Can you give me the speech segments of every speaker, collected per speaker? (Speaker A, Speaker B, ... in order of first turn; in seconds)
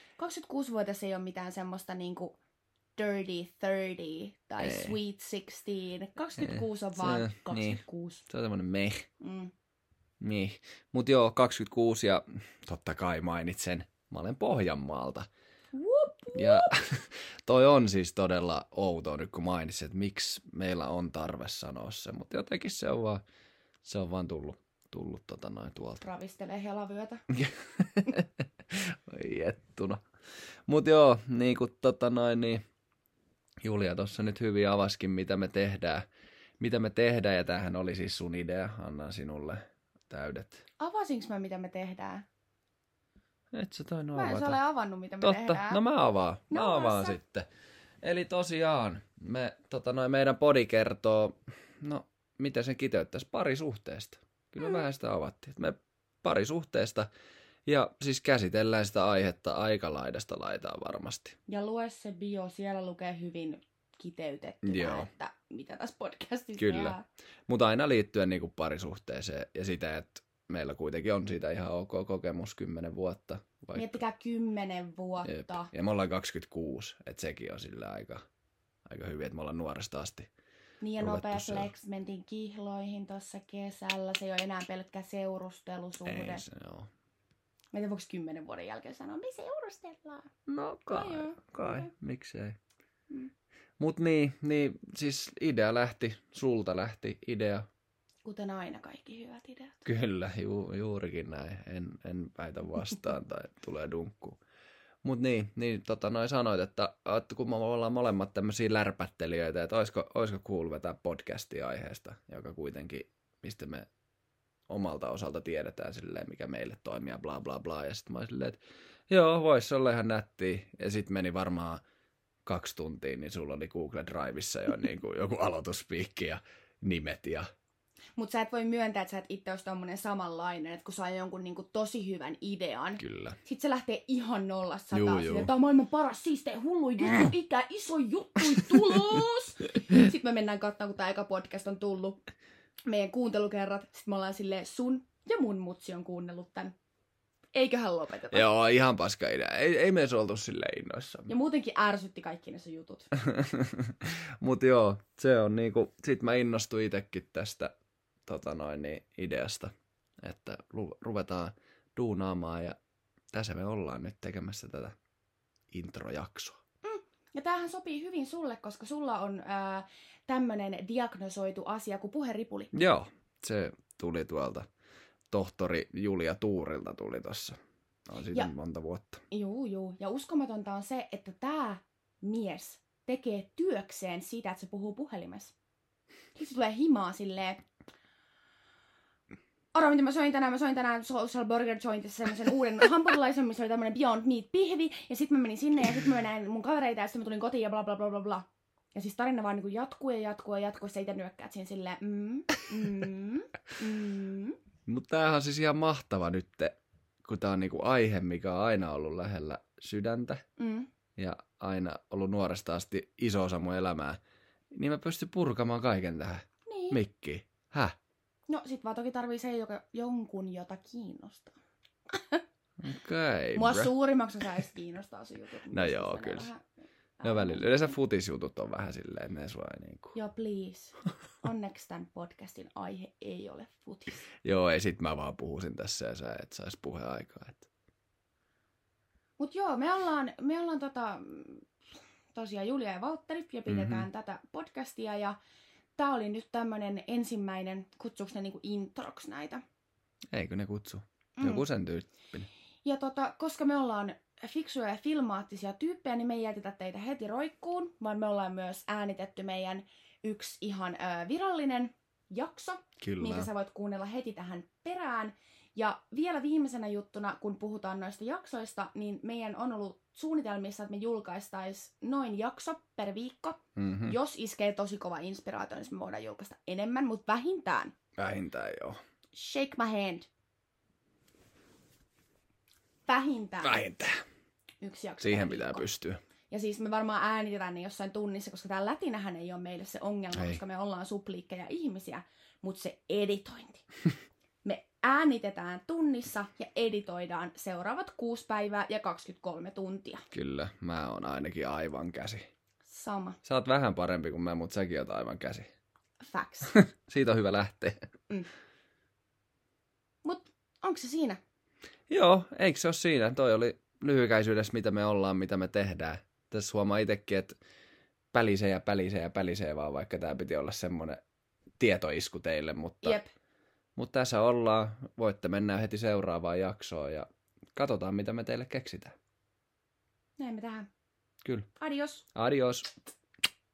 Speaker A: 0.2-2.4, 3.0-8.2, 9.2-9.5, 15.7-16.7, 26.0-27.2, 40.8-42.2, 44.1-45.8, 46.5-47.2, 61.5-67.0, 73.8-75.7, 80.8-86.4, 87.7-90.3, 90.9-91.9, 98.2-99.8, 128.2-142.2, 142.9-146.7, 147.5-148.5, 151.3-153.1, 166.8-172.7, 179.3-185.5, 186.4-187.7, 189.7-204.6, 210.6-210.9, 216.7-217.0, 218.5-221.6, 222.1-222.4, 223.6-226.7, 227.2-227.9, 230.1-234.3, 239.4-241.7, 242.3-245.4, 246.0-249.6, 251.4-251.7, 252.8-277.9, 279.3-280.3, 283.1-283.8, 284.8-285.9, 286.5-293.9, 294.6-300.2, 302.9-303.4, 306.2-306.8, 310.2-311.4, 323.0-323.3, 330.4-330.9, 331.8-332.3
Speaker B: 4.6-5.0, 6.4-9.1, 10.2-15.3, 16.3-23.2, 23.8-26.0, 27.3-30.0, 30.7-32.6, 33.6-36.0, 36.6-40.6, 43.5-44.6, 45.2-47.5, 48.0-57.1, 57.7-61.4, 64.6-65.1, 66.6-67.0, 67.5-74.0, 75.2-78.2, 78.9-80.3, 81.0-81.7, 86.1-86.9, 90.5-92.6, 93.8-97.7, 99.9-104.4, 105.0-113.9, 114.7-118.6, 119.1-121.8, 122.5-127.5, 133.0-133.4, 134.9-135.5, 148.3-151.3, 153.2-157.7, 158.3-159.7, 160.2-162.8, 163.3-164.9, 165.7-166.6, 172.7-174.7, 175.3-179.2, 204.9-210.4, 211.2-214.2, 214.7-217.9, 222.8-223.9, 225.7-226.5, 227.2-230.2, 234.4-237.7, 243.7-244.1, 250.3-252.5, 263.0-263.5, 273.8-274.2, 278.2-279.0, 283.6-284.2, 285.2-286.2, 290.3-290.6, 300.3-302.5, 303.4-305.7, 306.8-308.1, 312.1-317.6, 318.3-321.2, 321.8-323.2, 324.0-329.1, 331.4-331.7, 332.4-332.9